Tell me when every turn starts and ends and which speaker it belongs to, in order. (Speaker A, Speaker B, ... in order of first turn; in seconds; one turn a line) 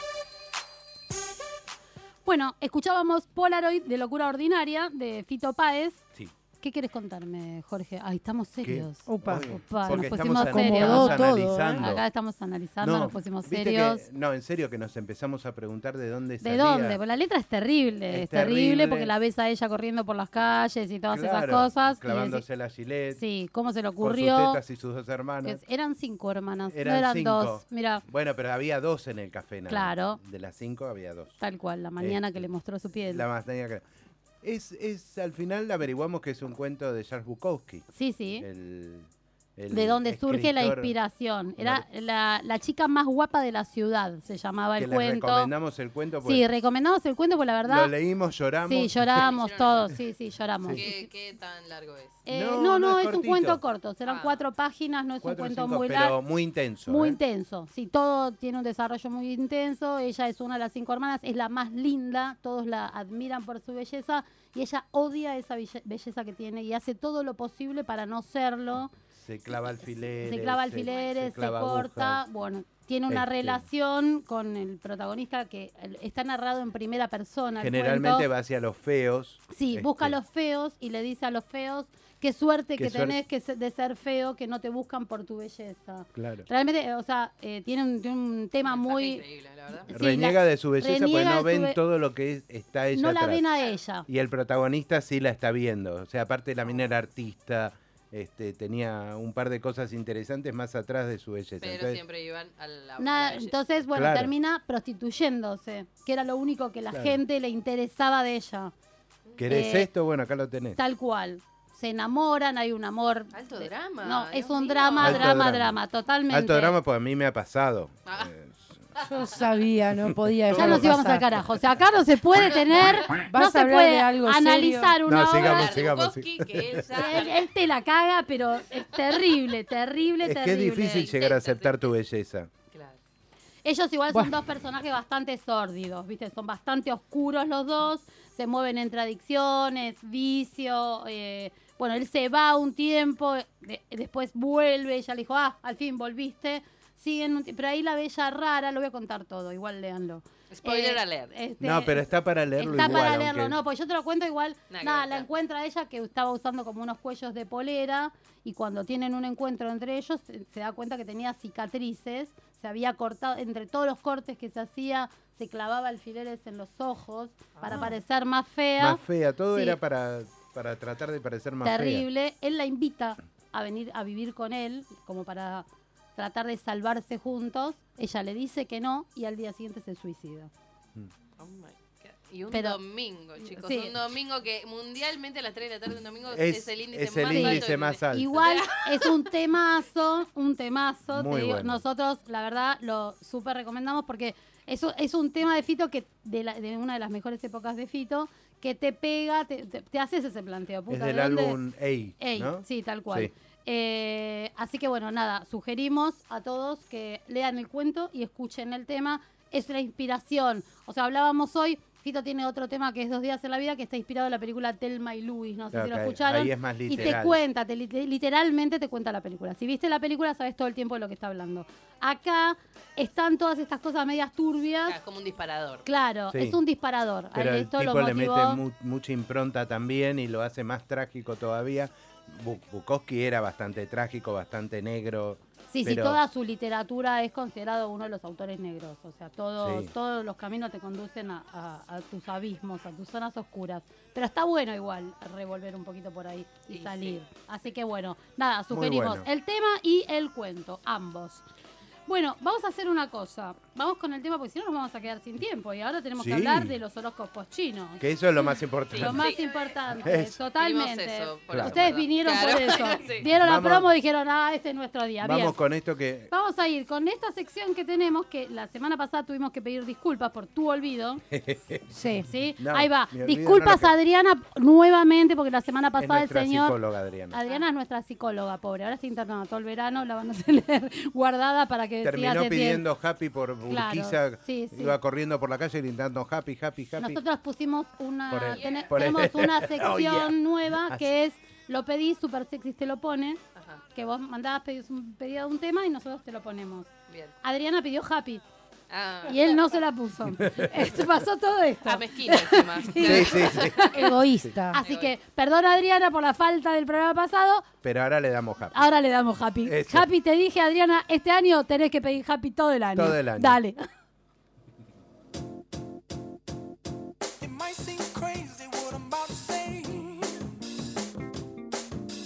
Speaker A: 2.2-6.0
Speaker A: 6.6-14.1
Speaker B: 8.6-12.0
Speaker C: 9.1-9.5
Speaker C: 10.4-11.9
Speaker B: 12.8-17.0
Speaker A: 16.4-22.4
Speaker B: 18.1-19.1
Speaker B: 21.1-23.2
Speaker A: 23.1-24.6
Speaker B: 24.0-25.6
Speaker A: 25.4-28.0
Speaker B: 26.7-31.4
Speaker A: 29.7-30.2
Speaker A: 31.4-33.2
Speaker B: 32.0-32.5
Speaker B: 33.1-33.8
Speaker B: 34.4-40.9
Speaker A: 37.9-38.5
Speaker A: 39.7-45.5
Speaker B: 41.6-41.8
Speaker B: 44.8-46.5
Speaker A: 46.2-47.9
Speaker B: 47.6-49.2
Speaker A: 48.7-51.1
Speaker D: 49.1-50.0
Speaker D: 50.7-52.2
Speaker A: 52.2-56.2
Speaker B: 52.3-53.6
Speaker D: 54.0-54.4
Speaker B: 55.2-57.2
Speaker A: 56.9-68.9
Speaker B: 69.2-72.2
Speaker A: 69.5-78.3
Speaker B: 73.1-73.7
Speaker B: 77.6-80.1
Speaker A: 79.5-89.2
Speaker B: 82.8-83.2
Speaker B: 86.2-86.5
Speaker D: 88.7-89.9
Speaker A: 89.9-91.8
Speaker B: 89.9-93.5
Speaker A: 92.9-94.0
Speaker B: 94.1-102.0
Speaker D: 101.6-103.5
Speaker A: 103.0-108.7
Speaker B: 103.9-104.3
Speaker B: 106.9-107.2
Speaker B: 109.4-110.8
Speaker A: 109.5-109.9
Speaker A: 110.8-116.8
Speaker D: 113.3-115.4
Speaker B: 115.0-115.8
Speaker B: 116.3-118.7
Speaker C: 119.0-121.4
Speaker A: 120.5-125.7
Speaker C: 123.1-125.0
Speaker B: 125.0-127.0
Speaker D: 125.2-127.4
Speaker A: 126.9-131.1
Speaker B: 130.2-132.5
Speaker D: 130.8-131.9
Speaker D: 132.7-133.0
Speaker A: 133.6-169.8
Speaker D: 150.5-151.3
Speaker B: 151.6-153.6
Speaker D: 154.7-155.3
Speaker D: 167.6-167.9
Speaker B: 168.8-172.1
Speaker A: 171.6-180.5
Speaker D: 181.4-189.3
Speaker A: 182.5-182.8
Speaker A: 183.5-183.9
Speaker B: 186.3-188.6
Speaker A: 187.3-201.6
Speaker B: 191.1-191.8
Speaker B: 200.9-203.3
Speaker A: 202.2-224.9
Speaker B: 215.7-217.4
Speaker D: 224.9-225.8
Speaker A: 225.8-228.6
Speaker B: 226.3-226.6
Speaker B: 227.3-236.2
Speaker A: 235.7-251.4
Speaker B: 239.6-239.9
Speaker D: 246.7-247.2
Speaker B: 248.7-249.3
Speaker A: 252.1-265.6
Speaker B: 256.2-256.8
Speaker B: 258.0-259.3
Speaker D: 258.9-259.5
Speaker B: 260.0-260.4
Speaker D: 260.6-263.2
Speaker B: 261.5-262.0
Speaker B: 263.3-263.9
Speaker B: 265.2-266.3
Speaker A: 266.3-271.2
Speaker B: 271.3-271.8
Speaker C: 271.9-272.2
Speaker A: 272.2-276.8
Speaker B: 272.6-273.9
Speaker B: 276.0-277.4
Speaker A: 277.3-282.8
Speaker B: 282.0-287.2
Speaker A: 283.7-284.9
Speaker A: 287.0-293.4
Speaker B: 288.3-291.1
Speaker D: 293.6-293.8
Speaker A: 293.9-296.9
Speaker D: 297.1-297.3
Speaker A: 297.4-298.4
Speaker D: 298.9-299.7
Speaker A: 299.2-304.1
Speaker B: 300.5-300.9
Speaker D: 301.8-303.6
Speaker B: 303.1-303.9
Speaker C: 303.9-304.8
Speaker A: 304.7-307.7
Speaker D: 304.8-305.1
Speaker B: 307.8-308.8
Speaker A: 308.7-313.8
Speaker B: 309.6-310.1
Speaker B: 312.9-313.6
Speaker E: 317.4-320.4